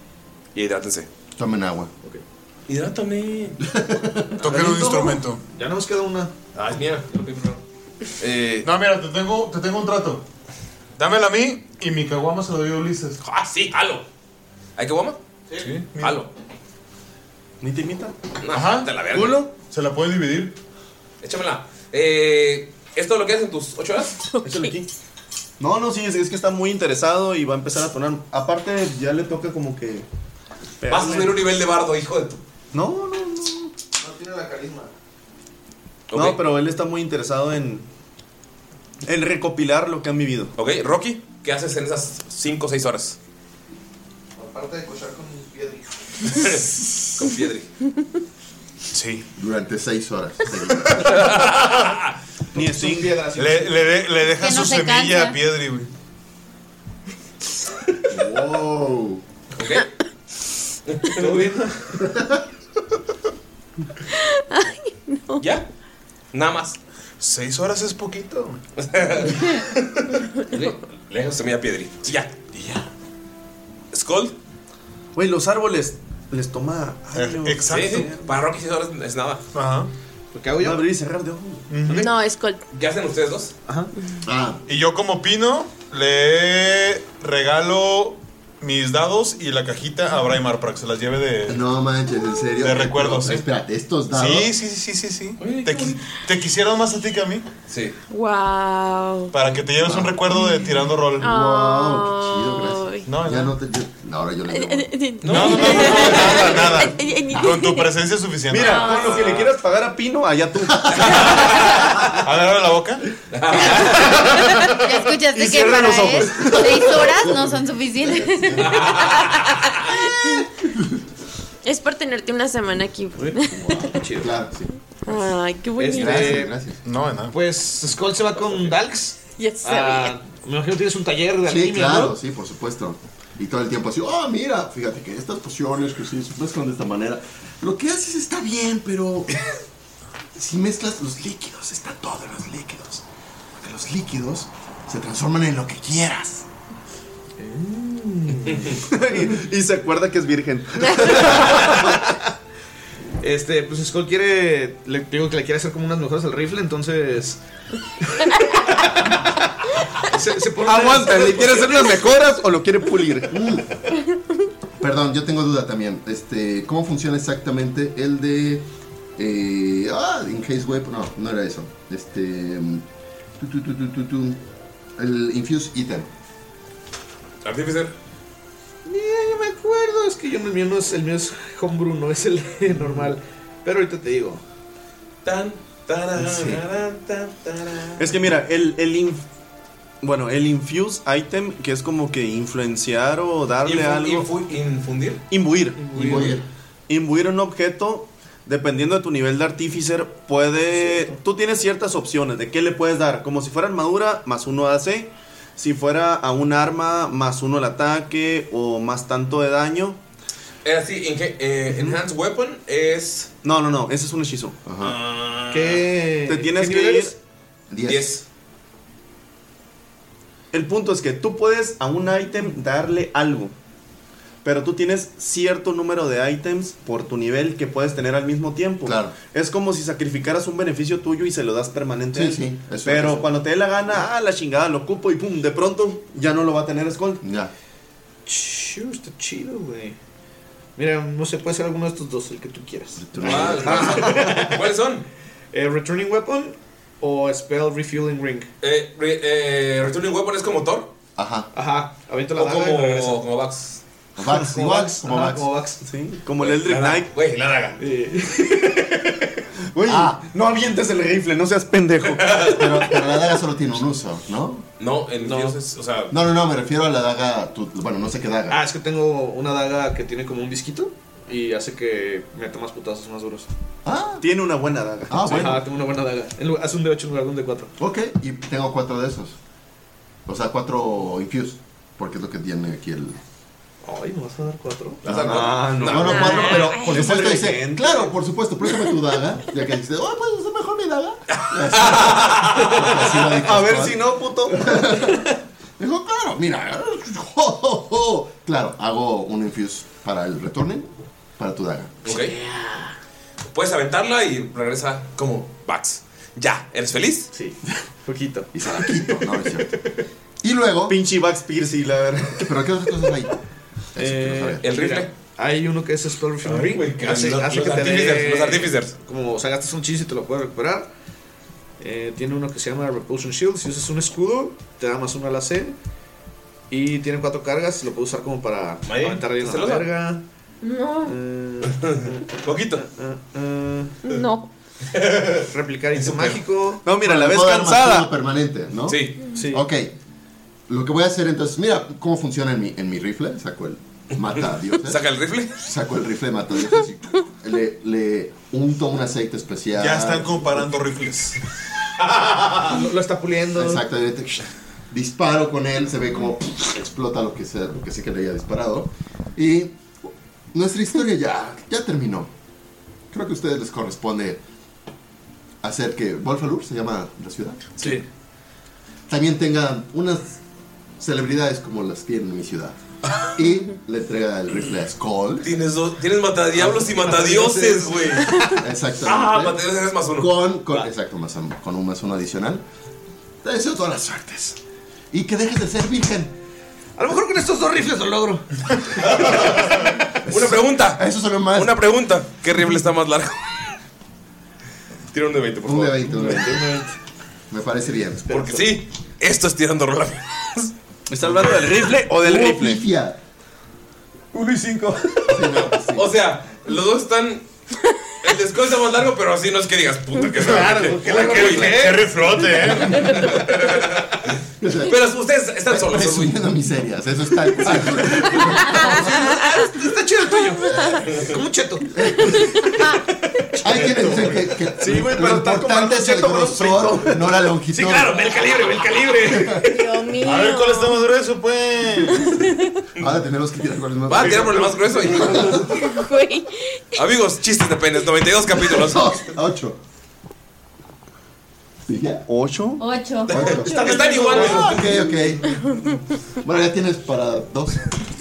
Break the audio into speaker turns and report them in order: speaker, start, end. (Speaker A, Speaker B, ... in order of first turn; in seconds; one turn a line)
Speaker A: 0.5-1.1
Speaker B: 1.4-1.9
Speaker A: 2.7-3.6
Speaker B: 3.7-4.3
Speaker C: 4.4-5.4
Speaker D: 4.4-5.2
Speaker E: 5.5-6.3
Speaker A: 6.5-7.1
Speaker E: 7.1-7.6
Speaker A: 8.2-8.7
Speaker C: 8.6-10.2
Speaker C: 11.0-13.2
Speaker A: 13.2-14.1
Speaker A: 14.8-15.2
Speaker C: 15.6-16.2
Speaker A: 16.0-16.3
Speaker D: 17.6-18.1
Speaker A: 18.4-19.4
Speaker C: 18.5-18.9
Speaker D: 19.1-19.5
Speaker C: 19.6-20.5
Speaker A: 21.2-24.2
Speaker F: 24.3-24.8
Speaker D: 24.4-24.9
Speaker D: 25.6-30.1
Speaker D: 30.8-31.4
Speaker A: 30.9-32.4
Speaker D: 32.7-33.7
Speaker E: 34.0-34.9
Speaker A: 36.1-36.4
Speaker D: 36.1-37.9
Speaker D: 39.0-40.5
Speaker A: 40.6-43.2
Speaker E: 44.4-46.4
Speaker A: 46.3-47.7
Speaker C: 48.9-49.2
Speaker B: 49.4-51.3
Speaker A: 51.0-52.1
Speaker C: 51.1-51.9
Speaker D: 52.5-53.2
Speaker E: 52.5-54.0
Speaker C: 53.4-55.9
Speaker G: 54.4-55.4
Speaker B: 58.1-59.2
Speaker A: 59.5-59.9
Speaker A: 60.9-61.4
Speaker E: 61.2-61.9
Speaker F: 64.2-65.5
Speaker A: 65.4-65.7
Speaker A: 66.3-66.8
Speaker C: 67.2-68.6
Speaker A: 68.8-72.3
Speaker C: 72.5-72.9
Speaker A: 73.9-74.3
Speaker D: 75.2-78.2
Speaker C: 77.1-78.1
Speaker A: 77.7-79.4
Speaker C: 79.5-79.9
Speaker E: 80.3-80.8
Speaker D: 80.6-81.8
Speaker C: 81.7-82.1
Speaker F: 81.9-82.6
Speaker A: 82.7-83.5
Speaker B: 84.2-84.6
Speaker C: 84.7-91.6
Speaker B: 91.5-94.5
Speaker C: 92.6-93.4
Speaker C: 94.1-97.4
Speaker A: 95.4-96.0
Speaker A: 97.7-98.0
Speaker F: 98.1-99.4
Speaker C: 99.3-101.3
Speaker B: 99.8-100.3
Speaker F: 101.1-103.1
Speaker B: 101.2-104.9
Speaker C: 103.1-103.5
Speaker F: 104.5-107.9
Speaker A: 105.2-106.6
Speaker C: 105.3-108.8
Speaker D: 108.5-112.2
Speaker F: 108.6-109.2
Speaker A: 108.9-109.5
Speaker B: 110.8-111.2
Speaker A: 110.9-111.8
Speaker C: 112.0-113.0
Speaker A: 113.3-114.2
Speaker C: 114.0-114.8
Speaker G: 114.7-119.0
Speaker D: 115.3-117.0
Speaker A: 118.6-119.8
Speaker F: 119.0-120.5
Speaker F: 121.6-123.9
Speaker E: 123.2-124.4
Speaker B: 124.2-124.7
Speaker F: 125.0-126.5
Speaker E: 125.8-126.5
Speaker B: 125.9-126.8
Speaker C: 126.8-127.3
Speaker E: 127.3-132.2
Speaker F: 129.4-130.2
Speaker B: 131.4-139.4
Speaker B: 140.3-143.0
Speaker B: 143.6-146.5
Speaker E: 147.4-148.8
Speaker D: 148.8-152.0
Speaker E: 151.1-152.1
Speaker E: 153.2-157.4
Speaker E: 158.0-159.3
Speaker E: 160.1-161.9
Speaker D: 160.6-163.3
Speaker B: 163.3-163.7
Speaker B: 164.8-172.8
Speaker B: 173.4-174.4
Speaker B: 175.0-176.1
Speaker A: 177.4-177.9
Speaker E: 178.8-184.4
Speaker A: 185.2-188.2
Speaker B: 186.2-186.6
Speaker D: 188.0-189.2
Speaker D: 190.0-194.3
Speaker A: 193.6-195.2
Speaker D: 195.3-196.3
Speaker E: 195.9-196.3
Speaker B: 195.9-196.4
Speaker A: 195.9-196.3
Speaker D: 196.9-210.0
Speaker E: 200.7-201.1
Speaker A: 210.6-213.3
Speaker D: 211.7-212.0
Speaker D: 213.4-214.6
Speaker B: 214.7-214.9
Speaker A: 214.8-215.8
Speaker E: 215.5-217.1
Speaker D: 216.2-217.2
Speaker B: 217.7-218.1
Speaker A: 217.8-218.2
Speaker D: 220.5-223.5
Speaker D: 224.4-237.2
Speaker B: 228.8-229.1
Speaker B: 232.1-233.2
Speaker B: 237.2-237.5
Speaker E: 238.2-240.0
Speaker E: 240.8-244.7
Speaker B: 243.0-244.1
Speaker A: 243.2-245.1
Speaker E: 245.5-248.5
Speaker A: 248.6-250.9
Speaker B: 251.2-251.5
Speaker E: 251.5-253.2
Speaker A: 252.3-253.8
Speaker B: 254.2-255.5
Speaker E: 254.3-255.8
Speaker D: 255.8-257.1
Speaker A: 256.4-257.8
Speaker E: 257.8-259.3
Speaker D: 259.7-262.4
Speaker B: 259.9-260.2
Speaker A: 262.1-262.9
Speaker B: 262.3-264.6
Speaker A: 264.8-266.1
Speaker E: 265.2-265.6
Speaker B: 266.1-268.6
Speaker E: 268.5-273.5
Speaker B: 273.8-274.2
Speaker D: 274.2-275.6
Speaker B: 275.1-275.6
Speaker E: 275.2-277.7
Speaker B: 277.8-279.4
Speaker B: 280.3-283.2
Speaker E: 283.8-285.3
Speaker B: 285.0-294.0
Speaker D: 285.1-288.0
Speaker A: 285.8-286.6
Speaker F: 286.0-287.0
Speaker A: 291.3-292.8
Speaker D: 293.3-294.8
Speaker B: 294.5-295.2
Speaker B: 295.8-302.0
Speaker A: 302.0-302.4
Speaker E: 302.1-302.9
Speaker A: 303.5-307.3
Speaker E: 307.3-309.3
Speaker B: 308.5-309.7
Speaker B: 310.4-311.0
Speaker D: 310.9-312.6
Speaker B: 312.4-313.3
Speaker B: 313.9-314.6
Speaker E: 313.9-320.9
Speaker A: 314.6-315.1
Speaker A: 316.4-318.9
Speaker E: 321.8-325.8
Speaker E: 326.7-330.2
Speaker A: 328.9-329.9
Speaker F: 330.6-331.1
Speaker E: 331.0-332.2
Speaker A: 331.7-332.8
Speaker E: 332.8-334.0
Speaker F: 334.0-334.5
Speaker A: 334.9-336.4
Speaker E: 335.4-336.8
Speaker D: 336.8-338.1
Speaker B: 337.0-339.9
Speaker A: 338.9-339.3
Speaker E: 339.4-339.7
Speaker B: 340.7-350.7
Speaker A: 344.8-345.6
Speaker C: 349.8-351.4
Speaker E: 352.0-353.8
Speaker B: 353.5-362.3
Speaker B: 363.1-364.4
Speaker B: 365.6-367.8
Speaker E: 367.8-368.0
Speaker B: 369.1-370.4
Speaker B: 371.0-372.8
Speaker B: 373.3-375.6
Speaker A: 375.4-378.4
Speaker E: 376.6-378.6
Speaker B: 378.6-379.6
Speaker A: 379.0-380.8
Speaker B: 380.1-382.6
Speaker B: 383.4-384.6
Speaker B: 385.1-386.3
Speaker E: 387.0-389.2
Speaker A: 389.0-393.7
Speaker B: 390.3-391.8
Speaker A: 395.1-396.0
Speaker B: 395.6-396.6
Speaker E: 396.0-396.9
Speaker B: 397.5-398.2
Speaker E: 398.2-398.8
Speaker A: 398.3-400.7
Speaker D: 401.1-402.8
Speaker B: 402.2-403.2
Speaker E: 404.3-405.4
Speaker B: 405.3-406.1
Speaker A: 405.4-407.4
Speaker A: 408.2-412.0
Speaker C: 410.4-413.2
Speaker E: 410.4-412.6
Speaker A: 412.9-414.3
Speaker B: 414.6-414.9
Speaker A: 414.9-416.4
Speaker B: 415.7-419.3
Speaker E: 417.6-422.3
Speaker F: 418.9-419.6
Speaker F: 420.3-421.0
Speaker B: 421.9-422.6
Speaker E: 423.5-430.0
Speaker B: 423.6-428.2
Speaker D: 425.0-425.3
Speaker B: 429.3-429.6
Speaker F: 429.5-431.1
Speaker C: 430.2-432.3
Speaker F: 432.0-432.8
Speaker B: 433.0-435.8
Speaker A: 434.1-435.6
Speaker F: 435.6-437.0
Speaker A: 437.0-439.2
Speaker B: 438.6-439.8
Speaker B: 441.9-442.2
Speaker D: 442.3-442.9
Speaker G: 442.8-444.2
Speaker B: 443.3-445.6
Speaker A: 443.3-445.0
Speaker E: 444.2-445.0
Speaker F: 445.6-445.9
Speaker B: 446.4-447.9